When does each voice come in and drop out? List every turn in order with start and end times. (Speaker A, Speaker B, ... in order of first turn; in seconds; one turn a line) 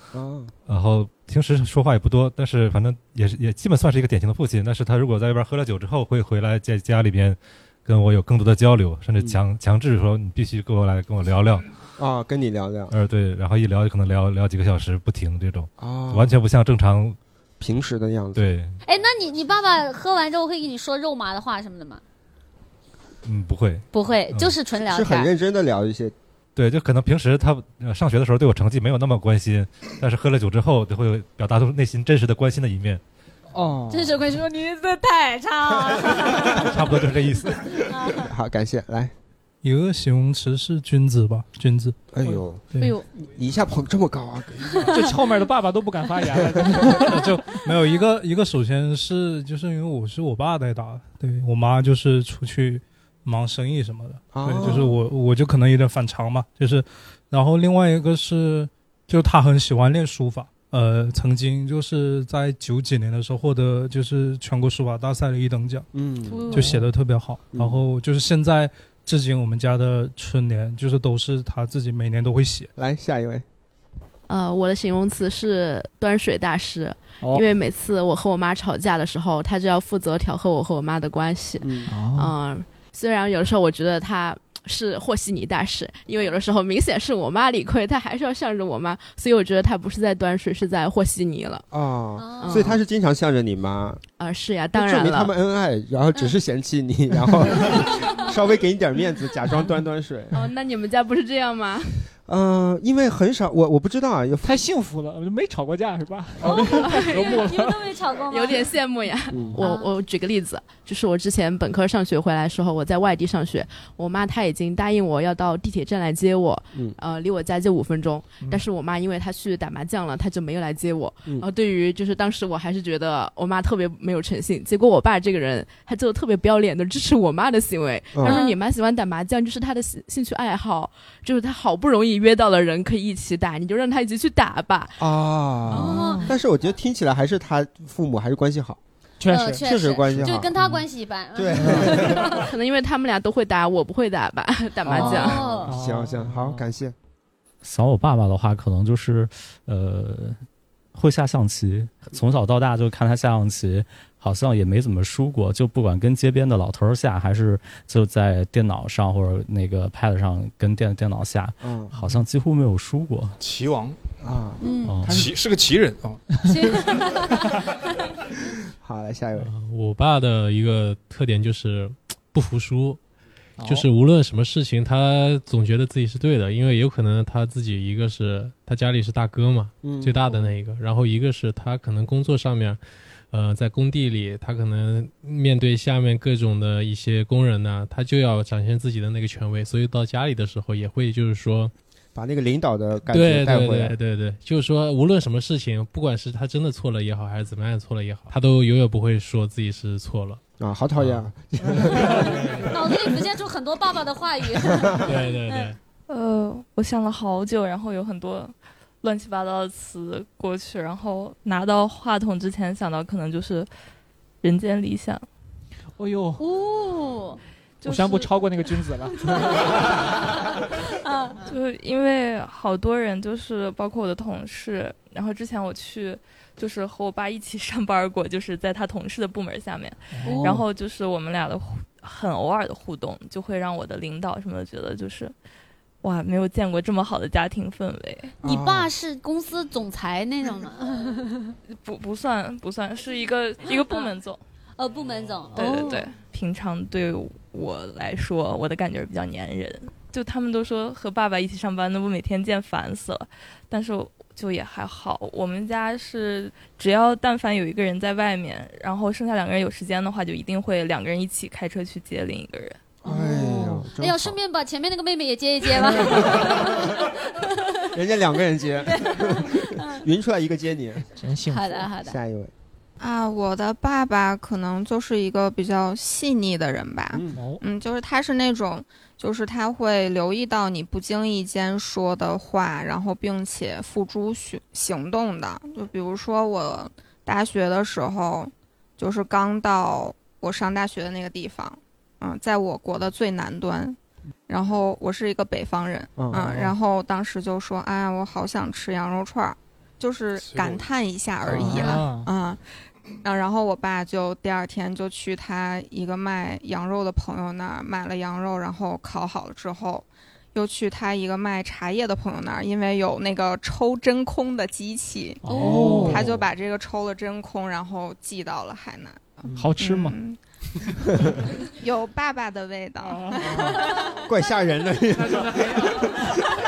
Speaker A: 0.1-0.5
Speaker B: 0.7-11.7
Speaker A: 12.0-12.9
Speaker B: 12.9-17.2
Speaker A: 15.8-16.4
Speaker A: 17.6-18.5
Speaker B: 18.4-18.8
Speaker C: 18.8-22.0
Speaker B: 23.2-24.6
Speaker C: 23.9-25.3
Speaker A: 24.8-26.1
Speaker B: 26.6-33.0
Speaker A: 33.5-34.3
Speaker C: 33.9-36.6
Speaker B: 36.6-37.6
Speaker C: 37.9-38.3
Speaker A: 38.1-39.1
Speaker D: 39.6-42.0
Speaker A: 42.1-45.1
Speaker C: 42.8-43.1
Speaker E: 44.9-47.4
Speaker D: 47.1-65.9
Speaker A: 54.3-55.0
Speaker A: 65.9-66.5
Speaker C: 66.3-66.7
Speaker E: 66.5-66.8
Speaker D: 66.5-72.7
Speaker A: 67.5-67.8
Speaker A: 72.8-73.5
Speaker F: 74.3-91.7
Speaker E: 77.2-77.5
Speaker A: 81.6-81.9
Speaker E: 81.9-82.3
Speaker A: 91.7-94.0
Speaker C: 92.2-92.7
Speaker F: 92.4-92.8
Speaker F: 94.2-95.3
Speaker A: 94.8-100.4
Speaker C: 97.6-98.3
Speaker F: 100.3-102.1
Speaker A: 102.3-104.6
Speaker E: 104.4-108.0
Speaker C: 106.4-108.8
Speaker F: 106.6-107.3
Speaker F: 108.3-135.0
Speaker A: 109.3-109.6
Speaker C: 109.6-109.9
Speaker A: 128.1-128.4
Speaker C: 128.2-128.6
Speaker A: 135.0-138.8
Speaker E: 135.7-136.3
Speaker C: 135.8-136.3
Speaker E: 139.2-139.7
Speaker C: 139.3-142.4
Speaker A: 139.6-140.5
Speaker A: 141.3-142.4
Speaker F: 142.4-145.4
Speaker A: 144.8-146.9
Speaker C: 144.9-145.7
Speaker E: 144.9-146.7
Speaker G: 147.6-150.4
Speaker G: 150.9-163.4
Speaker A: 161.6-161.9
Speaker H: 163.4-164.0
Speaker A: 164.2-165.3
Speaker C: 164.6-165.0
Speaker G: 164.8-165.3
Speaker H: 165.0-166.2
Speaker C: 166.5-167.4
Speaker A: 168.8-169.5
Speaker I: 169.4-173.0
Speaker E: 173.6-173.8
Speaker I: 173.6-191.7
Speaker A: 179.8-180.5
Speaker A: 192.2-194.0
Speaker I: 193.1-200.4
Speaker A: 200.6-203.0
Speaker I: 201.0-201.2
Speaker I: 202.2-202.7
Speaker C: 202.7-205.8
Speaker A: 204.7-205.0
Speaker I: 205.0-205.8
Speaker J: 206.1-213.7
Speaker J: 214.4-215.2
Speaker E: 216.0-216.4
Speaker C: 216.4-217.4
Speaker J: 217.8-218.4
Speaker E: 217.8-220.1
Speaker C: 221.0-221.4
Speaker J: 221.4-235.3
Speaker E: 230.1-230.6
Speaker J: 236.0-238.4
Speaker A: 238.4-238.9
Speaker C: 238.4-241.5
Speaker J: 241.7-244.4
Speaker C: 243.7-244.1
Speaker C: 244.8-246.1
Speaker J: 245.6-262.8
Speaker A: 263.0-264.4
Speaker C: 263.1-263.4
Speaker E: 263.5-263.9
Speaker C: 264.0-267.9
Speaker A: 265.8-267.0
Speaker A: 267.9-271.1
Speaker C: 268.9-270.0
Speaker E: 271.2-271.9
Speaker C: 271.5-272.2
Speaker A: 272.0-272.5
Speaker K: 273.0-294.0
Speaker A: 277.1-277.4
Speaker E: 277.3-277.6
Speaker K: 294.5-302.6
Speaker A: 296.2-296.5
Speaker E: 296.4-296.7
Speaker H: 300.4-300.9
Speaker E: 301.4-302.3
Speaker K: 303.2-320.4
Speaker E: 315.4-316.3
Speaker A: 315.5-316.4
Speaker A: 319.4-319.7
Speaker E: 319.5-320.2
Speaker K: 321.8-323.7
Speaker E: 323.0-323.9
Speaker A: 323.5-326.2
Speaker E: 325.1-326.3